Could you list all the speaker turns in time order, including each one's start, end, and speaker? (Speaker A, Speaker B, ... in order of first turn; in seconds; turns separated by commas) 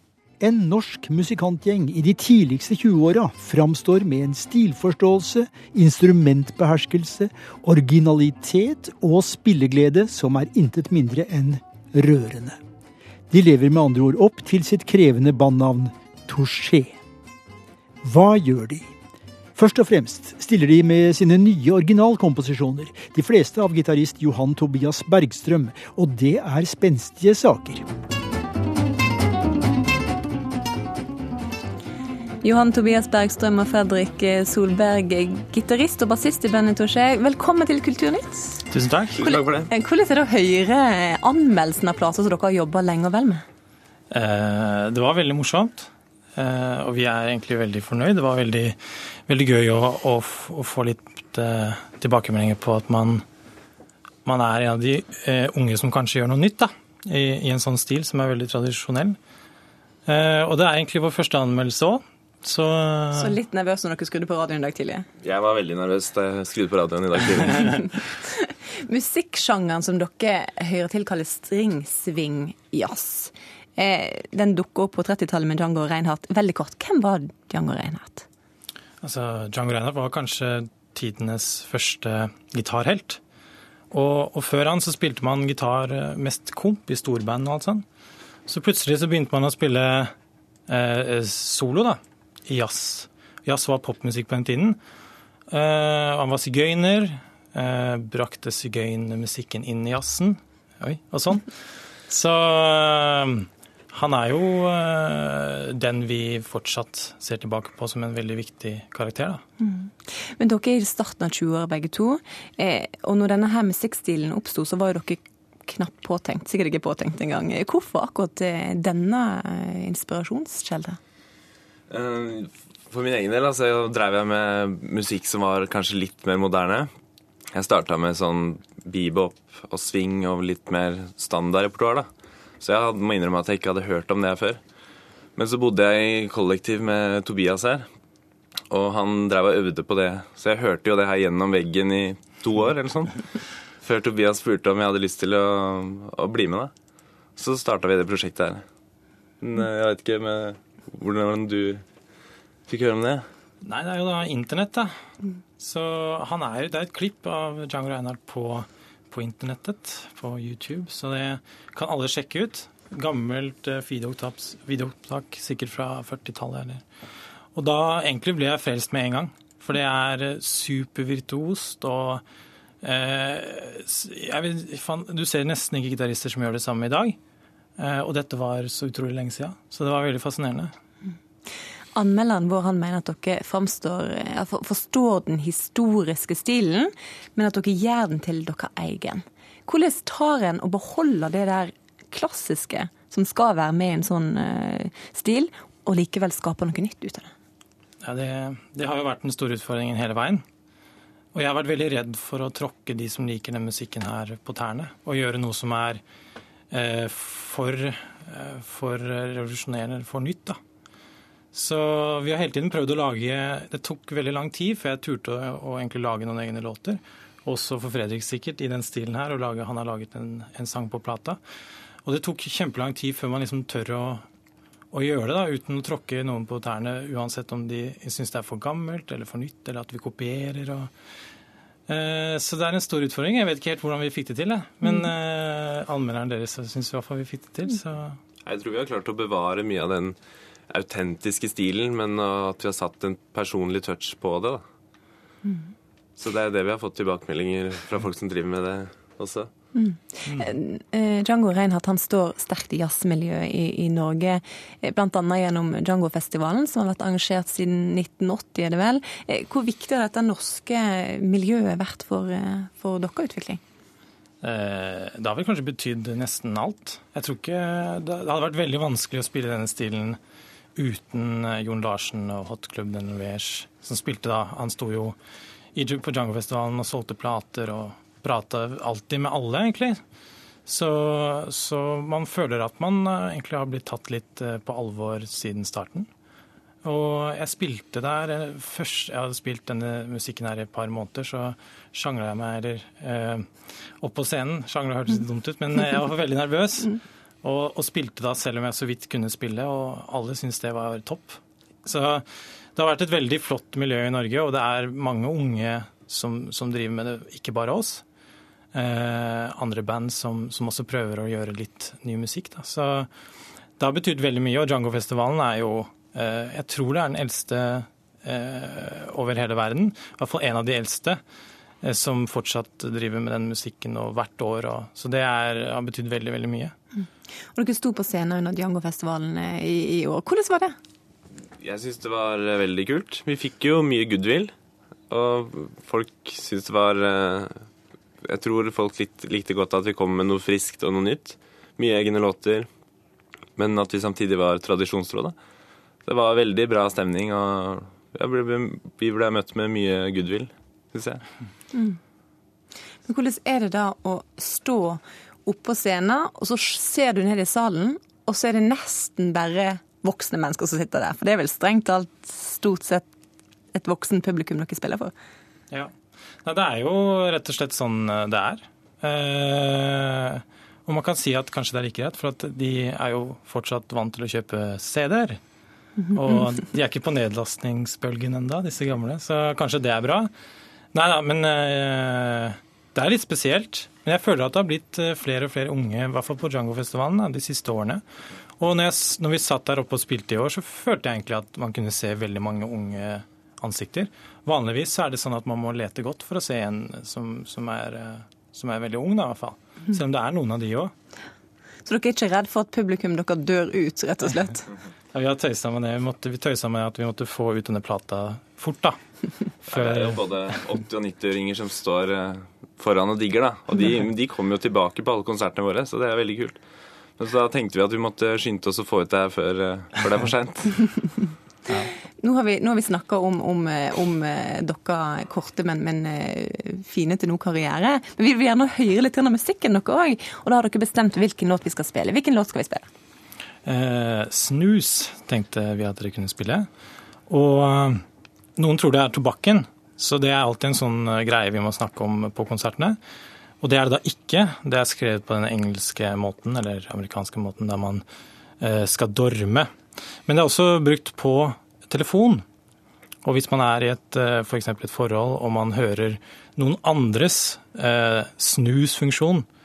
Speaker A: 0.4-12.6, Speaker A: 13.3-16.9, Speaker A: 18.0-18.8, Speaker A: 19.5-27.8, Speaker B: 32.4-38.6, Speaker C: 38.7-39.2, Speaker D: 39.2-39.7, Speaker B: 39.2-43.4, Speaker C: 44.1-53.2, Speaker C: 54.2-59.2, Speaker C: 60.0-63.4, Speaker B: 63.1-65.1, Speaker D: 65.2-68.0, Speaker B: 68.0-78.3, Speaker C: 79.0-83.2, Speaker C: 83.9-87.8, Speaker C: 88.5-90.1, Speaker C: 90.7-94.8, Speaker C: 95.5-101.5, Speaker C: 102.1-109.4, Speaker B: 109.6-121.0, Speaker D: 121.9-126.9, Speaker D: 127.5-132.1, Speaker D: 132.6-134.6, Speaker D: 135.3-137.8, Speaker D: 138.7-143.2, Speaker D: 143.8-146.7, Speaker D: 147.4-148.6, Speaker D: 149.4-151.8, Speaker D: 152.7-153.2, Speaker C: 153.6-154.9, Speaker C: 155.6-166.8, Speaker C: 167.5-172.2, Speaker C: 172.8-177.2, Speaker C: 177.8-180.7, Speaker B: 181.9-197.3, Speaker C: 198.0-200.4, Speaker C: 201.3-206.0, Speaker C: 206.7-210.6, Speaker C: 211.5-221.4, Speaker C: 222.0-224.2, Speaker C: 224.9-230.9, Speaker C: 231.9-238.2, Speaker D: 238.4-240.2, Speaker D: 240.7-244.6, Speaker D: 246.2-249.5, Speaker B: 249.7-263.6, Speaker C: 264.4-270.2, Speaker C: 270.8-275.1, Speaker C: 275.7-280.0, Speaker C: 280.6-286.1, Speaker C: 286.8-293.5, Speaker C: 294.0-302.2, Speaker C: 302.8-308.0, Speaker C: 308.7-313.1, Speaker C: 313.8-321.2, Speaker C: 321.8-326.7, Speaker B: 327.5-330.7, Speaker D: 331.6-334.5, Speaker D: 335.1-337.7, Speaker D: 338.2-342.7, Speaker D: 343.6-345.3, Speaker D: 346.0-351.2, Speaker B: 351.7-352.0, Speaker B: 353.0-363.1, Speaker B: 363.7-365.1, Speaker C: 366.4-375.4, Speaker C: 376.1-380.3, Speaker C: 380.9-388.0, Speaker C: 388.6-400.9, Speaker B: 401.8-404.7, Speaker C: 405.1-409.0, Speaker C: 409.6-410.2, Speaker D: 409.6-416.6, Speaker D: 417.2-421.1, Speaker B: 422.2-432.9, Speaker C: 433.6-436.6, Speaker C: 437.3-438.0, Speaker C: 438.6-443.0, Speaker C: 443.6-448.0, Speaker C: 448.6-449.7, Speaker C: 450.3-452.4, Speaker C: 453.2-459.4